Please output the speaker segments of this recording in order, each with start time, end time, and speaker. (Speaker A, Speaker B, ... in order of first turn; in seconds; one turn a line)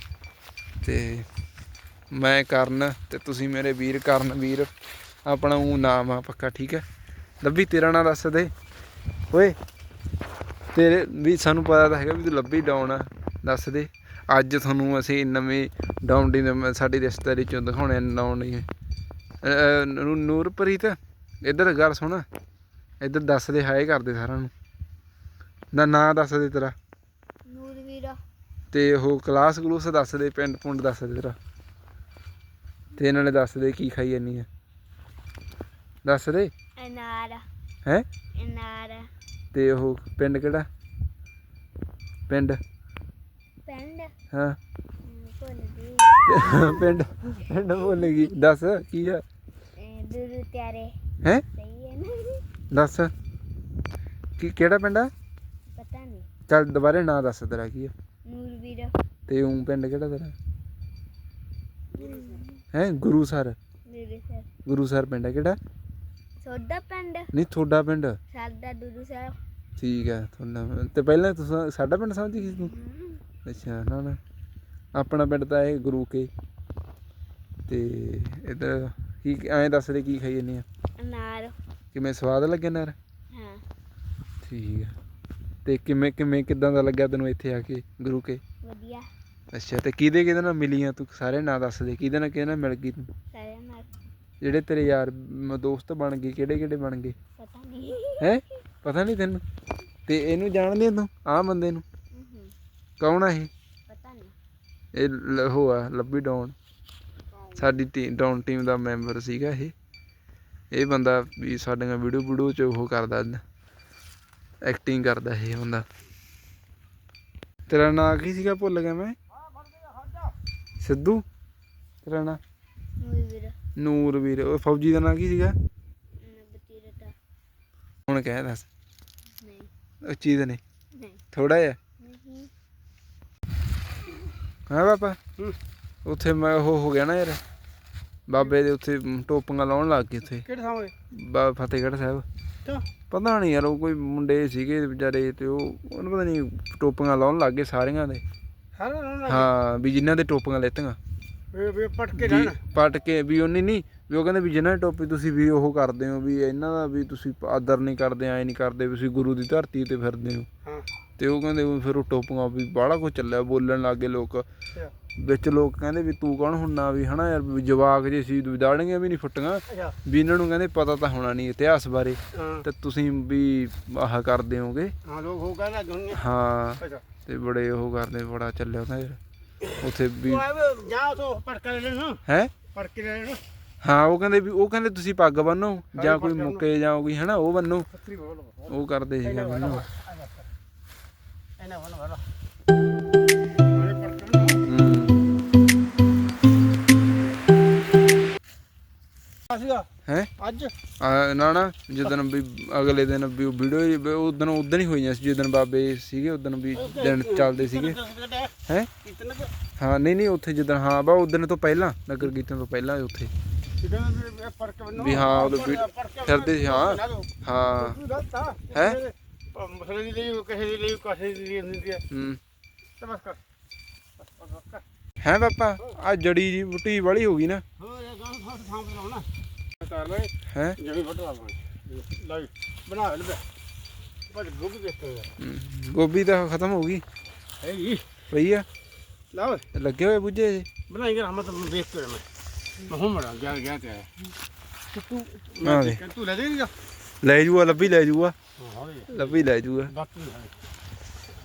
Speaker A: 0.8-1.2
Speaker A: 2.1-4.7
Speaker A: 5.2-6.8
Speaker A: 7.4-8.5
Speaker A: 9.3-9.6
Speaker A: 10.7-18.6
Speaker A: 19.4-22.2
Speaker A: 23.0-24.5
Speaker A: 25.7-26.7
Speaker B: 27.5-28.2
Speaker A: 28.7-31.4
Speaker A: 33.0-34.5
Speaker A: 36.0-36.5
Speaker B: 36.8-37.4
Speaker B: 38.4-39.1
Speaker A: 39.5-40.6
Speaker A: 42.3-42.6
Speaker B: 43.7-44.1
Speaker A: 44.3-44.6
Speaker B: 45.0-46.9
Speaker A: 46.2-49.2
Speaker B: 49.8-50.9
Speaker B: 51.5-52.4
Speaker A: 52.7-53.1
Speaker A: 54.4-55.1
Speaker B: 55.8-56.2
Speaker A: 56.5-57.9
Speaker B: 58.2-58.9
Speaker A: 59.3-60.3
Speaker B: 61.9-62.6
Speaker A: 62.7-63.5
Speaker B: 63.9-64.5
Speaker A: 64.6-65.6
Speaker B: 66.4-67.3
Speaker A: 67.3-68.2
Speaker B: 68.3-69.3
Speaker A: 69.8-72.7
Speaker B: 72.4-73.2
Speaker A: 73.4-74.2
Speaker A: 74.9-76.3
Speaker A: 77.7-80.6
Speaker B: 81.0-81.5
Speaker A: 81.9-83.0
Speaker B: 83.3-83.6
Speaker A: 84.4-84.9
Speaker A: 85.6-88.4
Speaker B: 88.6-89.0
Speaker A: 89.5-93.1
Speaker B: 93.3-93.9
Speaker A: 94.4-97.1
Speaker B: 97.4-98.2
Speaker A: 98.2-99.4
Speaker A: 100.1-101.8
Speaker B: 102.1-102.5
Speaker A: 103.0-103.5
Speaker B: 103.9-104.3
Speaker A: 104.9-106.5
Speaker A: 107.6-109.7
Speaker A: 110.7-113.4
Speaker A: 114.6-115.8
Speaker A: 117.7-119.1
Speaker A: 120.8-121.2
Speaker A: 122.0-122.4
Speaker B: 123.0-123.5
Speaker A: 123.8-125.5
Speaker B: 126.2-127.1
Speaker A: 128.1-128.7
Speaker B: 129.4-129.7
Speaker A: 130.0-130.6
Speaker A: 131.3-131.8
Speaker B: 132.0-132.5
Speaker A: 134.7-135.2
Speaker A: 136.0-137.4
Speaker A: 138.3-140.4
Speaker C: 140.5-140.9
Speaker A: 141.1-142.2
Speaker A: 143.1-148.2
Speaker C: 148.8-149.4
Speaker A: 149.3-151.0
Speaker C: 151.5-152.6
Speaker A: 152.1-160.5
Speaker A: 161.2-164.4
Speaker A: 165.2-174.9
Speaker C: 175.1-176.1
Speaker A: 176.1-179.2
Speaker A: 179.7-180.5
Speaker C: 180.3-182.2
Speaker C: 182.8-183.4
Speaker A: 183.8-187.9
Speaker C: 186.0-186.5
Speaker C: 188.2-188.5
Speaker A: 188.7-189.9
Speaker C: 189.3-190.2
Speaker C: 191.6-192.2
Speaker C: 193.7-194.5
Speaker A: 194.7-195.1
Speaker C: 199.5-199.8
Speaker C: 200.4-200.7
Speaker A: 201.0-208.0
Speaker C: 206.9-208.5
Speaker C: 209.1-209.5
Speaker A: 209.8-213.3
Speaker C: 213.8-217.2
Speaker A: 214.9-218.0
Speaker C: 218.0-222.0
Speaker A: 218.7-219.0
Speaker A: 222.1-222.4
Speaker C: 223.0-223.4
Speaker C: 224.4-224.8
Speaker A: 225.2-227.6
Speaker C: 227.8-229.2
Speaker C: 229.8-230.3
Speaker A: 230.5-230.8
Speaker C: 230.9-233.4
Speaker C: 234.3-235.2
Speaker A: 235.4-237.0
Speaker C: 237.6-238.0
Speaker A: 238.3-238.6
Speaker C: 239.3-239.6
Speaker A: 239.7-240.7
Speaker C: 240.9-242.2
Speaker C: 242.8-244.1
Speaker C: 244.9-246.7
Speaker A: 245.6-246.0
Speaker A: 247.2-248.3
Speaker C: 248.6-249.0
Speaker A: 249.1-249.9
Speaker C: 250.0-250.5